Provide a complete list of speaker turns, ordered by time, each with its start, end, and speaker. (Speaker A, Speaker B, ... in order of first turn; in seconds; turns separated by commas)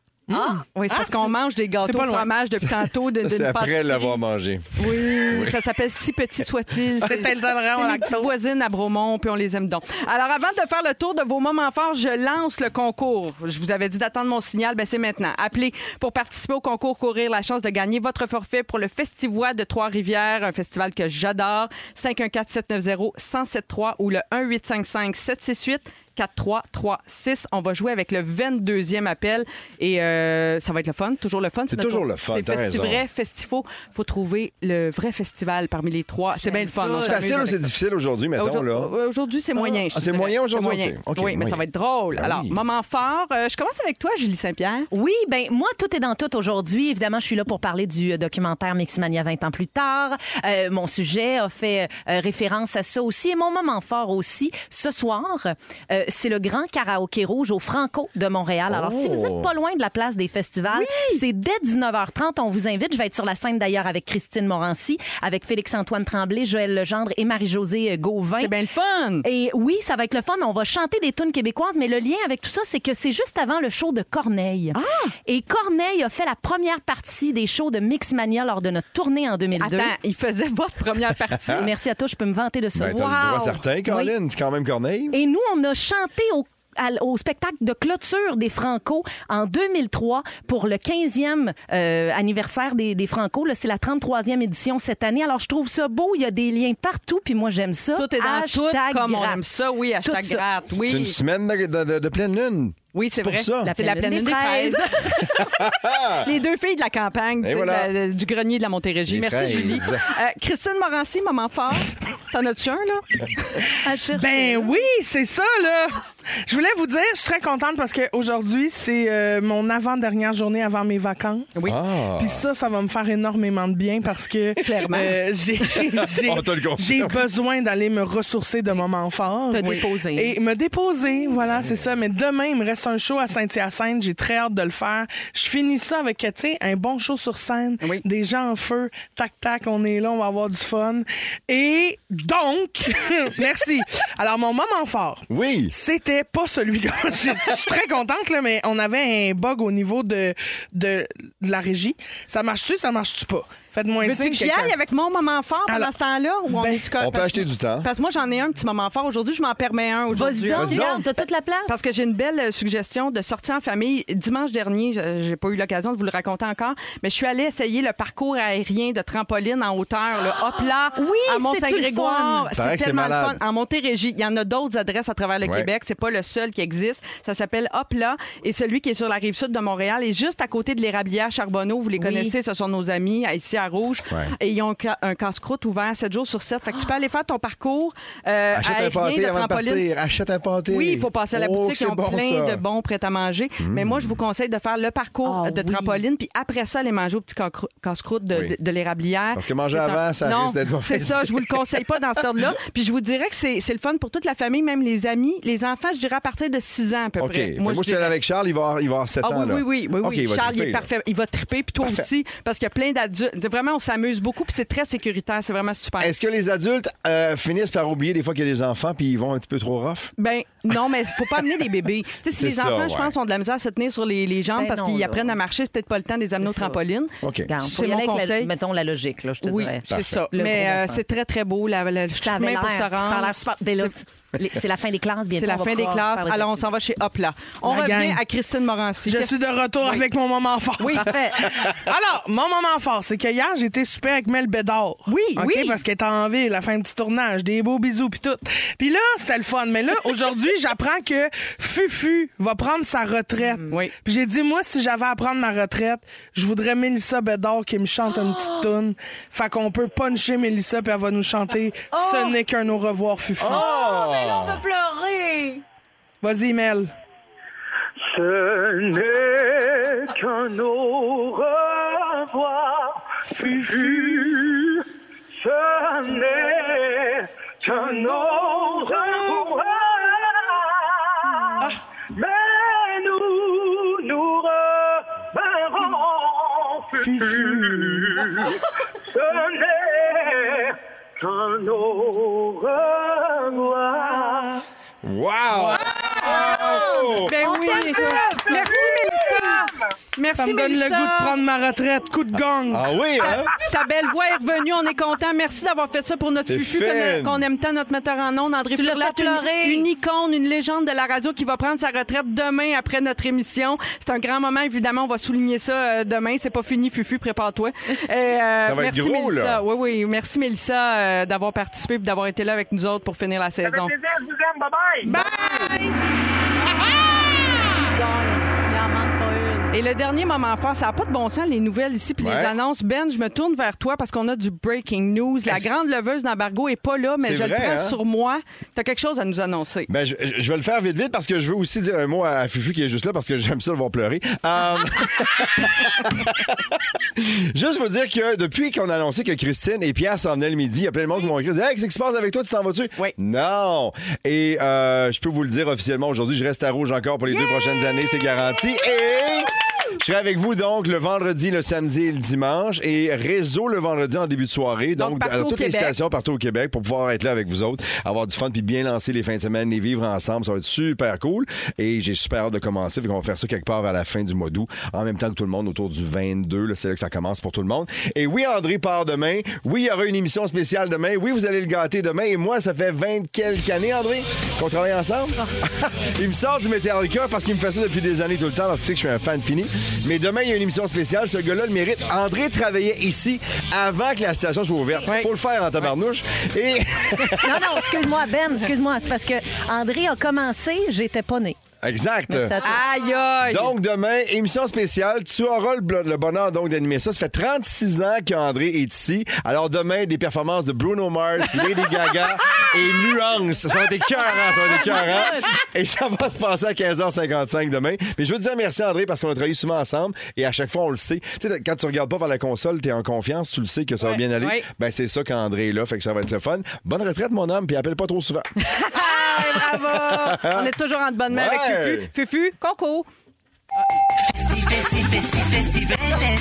Speaker A: 0.3-2.3, Speaker B: 0.4-4.2, Speaker C: 3.2-5.6, Speaker B: 4.8-37.7, Speaker A: 7.0-8.3, Speaker C: 31.7-33.0, Speaker D: 36.4-37.2, Speaker C: 36.9-38.9, Speaker B: 38.4-44.9, Speaker C: 39.6-41.6, Speaker C: 42.1-42.6, Speaker D: 44.9-68.5, Speaker C: 58.7-59.5, Speaker B: 60.7-61.2, Speaker B: 68.4-69.2, Speaker D: 69.2-79.9, Speaker B: 74.7-75.1, Speaker B: 79.6-81.7, Speaker D: 81.5-84.1, Speaker C: 82.8-85.2, Speaker D: 85.1-99.4, Speaker B: 98.0-101.2, Speaker D: 100.0-100.4, Speaker C: 100.7-103.7, Speaker B: 102.9-113.7, Speaker D: 103.6-105.2, Speaker C: 105.4-106.3, Speaker C: 107.4-107.9, Speaker C: 109.1-110.0, Speaker D: 113.7-114.8, Speaker A: 114.1-121.5, Speaker C: 121.7-122.5, Speaker A: 122.2-154.8, Speaker B: 124.6-125.2, Speaker C: 126.2-127.2, Speaker D: 129.5-130.2, Speaker B: 129.5-130.3, Speaker C: 145.3-145.7, Speaker B: 154.0-161.0, Speaker A: 156.5-156.8, Speaker C: 157.0-157.9, Speaker D: 160.1-161.8, Speaker C: 160.5-161.1, Speaker B: 161.7-189.8, Speaker D: 170.9-172.5, Speaker C: 172.6-173.4, Speaker C: 175.4-175.7, Speaker D: 182.0-182.3, Speaker C: 188.5-192.6, Speaker B: 190.7-208.2, Speaker C: 193.6-194.2, Speaker D: 195.2-196.0, Speaker C: 199.3-201.6, Speaker C: 207.2-210.9, Speaker B: 209.2-216.2, Speaker C: 216.0-220.1, Speaker B: 220.2-228.5, Speaker C: 222.3-223.1, Speaker D: 224.6-225.4, Speaker D: 226.4-226.8, Speaker C: 227.2-227.5, Speaker D: 227.5-231.0, Speaker B: 229.4-233.9, Speaker C: 229.9-230.2, Speaker D: 232.2-236.7, Speaker B: 235.3-240.0, Speaker A: 237.7-238.2, Speaker A: 239.1-263.6, Speaker B: 240.8-241.1, Speaker D: 240.9-241.4, Speaker B: 245.1-245.8, Speaker D: 261.9-262.4, Speaker C: 263.4-264.6, Speaker D: 263.5-265.6, Speaker A: 266.2-266.9, Speaker E: 268.0-294.6, Speaker A: 273.3-274.4, Speaker A: 277.7-279.5, Speaker A: 287.0-288.2, Speaker A: 294.0-294.6, Speaker C: 295.0-297.4, Speaker A: 295.7-296.6, Speaker D: 296.5-298.8, Speaker B: 297.1-301.4, Speaker A: 297.7-298.2, Speaker E: 299.1-299.6, Speaker A: 300.4-302.9, Speaker C: 302.7-303.5, Speaker B: 303.2-323.9, Speaker C: 306.5-307.4, Speaker D: 308.8-309.9, Speaker C: 318.6-319.6, Speaker E: 323.6-325.2, Speaker A: 325.1-326.0, Speaker D: 326.8-327.4, Speaker B: 327.8-328.6, Speaker D: 328.6-329.7, Speaker B: 329.7-339.9, Speaker C: 332.2-332.5, Speaker C: 337.2-338.0, Speaker C: 339.9-397.8, Speaker B: 365.0-365.9, Speaker D: 397.4-401.6, Speaker C: 401.8-402.6, Speaker D: 402.3-402.8, Speaker B: 402.6-403.7, Speaker C: 403.4-428.5, Speaker D: 414.8-415.4, Speaker B: 424.4-424.7, Speaker B: 428.6-433.1, Speaker C: 429.9-430.7, Speaker C: 431.3-432.1